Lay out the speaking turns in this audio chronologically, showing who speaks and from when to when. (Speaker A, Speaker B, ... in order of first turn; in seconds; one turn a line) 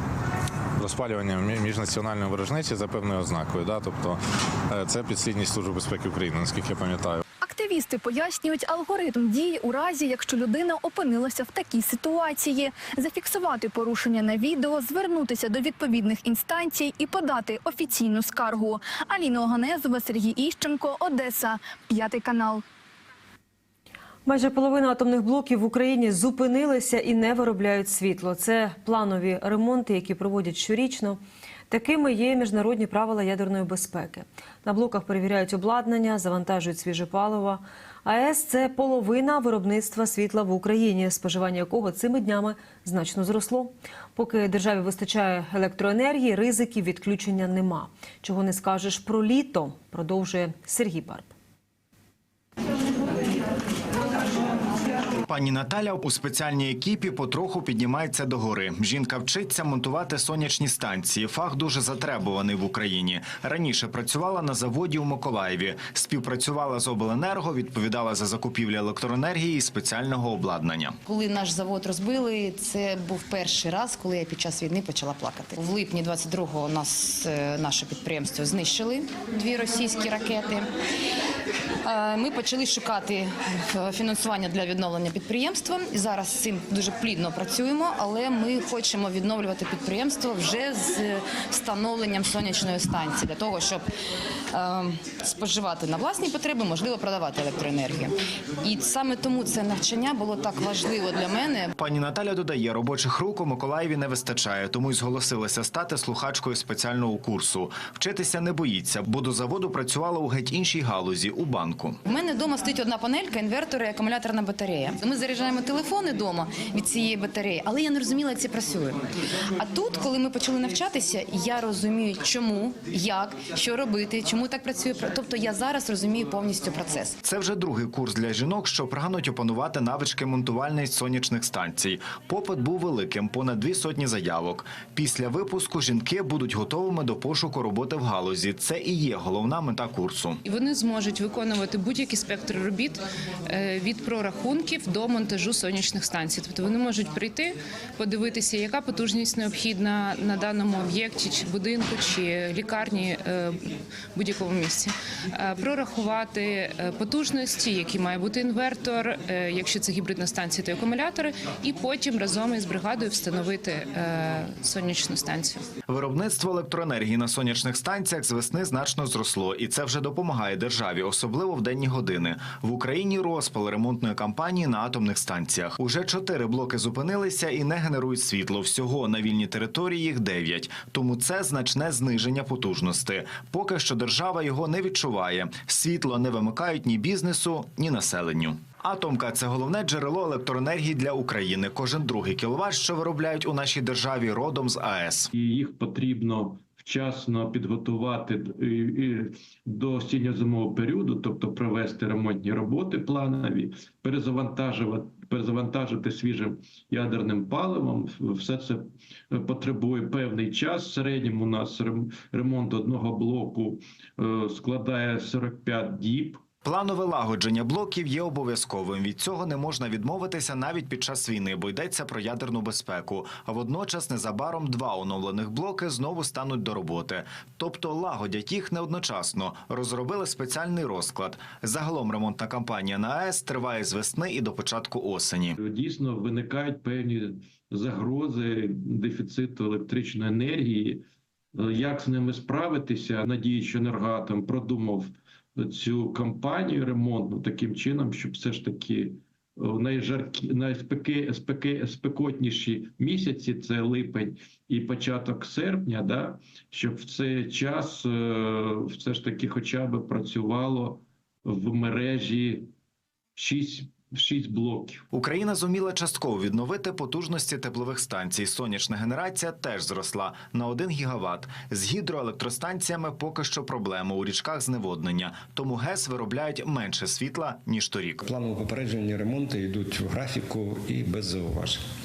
Speaker A: 0.8-7.2
Speaker B: 7.4-22.6
Speaker C: 24.3-51.3
Speaker D: 55.3-71.0
Speaker E: 71.0-80.7
Speaker E: 81.8-93.8
Speaker E: 94.5-101.7
Speaker D: 101.8-112.0
Speaker E: 112.1-119.0
Speaker E: 119.6-127.2
Speaker D: 127.2-140.4
Speaker F: 140.4-165.7
Speaker D: 165.9-195.3
Speaker G: 195.3-216.4
Speaker D: 216.6-235.6
Speaker G: 235.6-241.0
Speaker G: 241.6-262.7
Speaker G: 263.4-265.0
Speaker D: 265.1-278.2
Speaker H: 278.2-281.8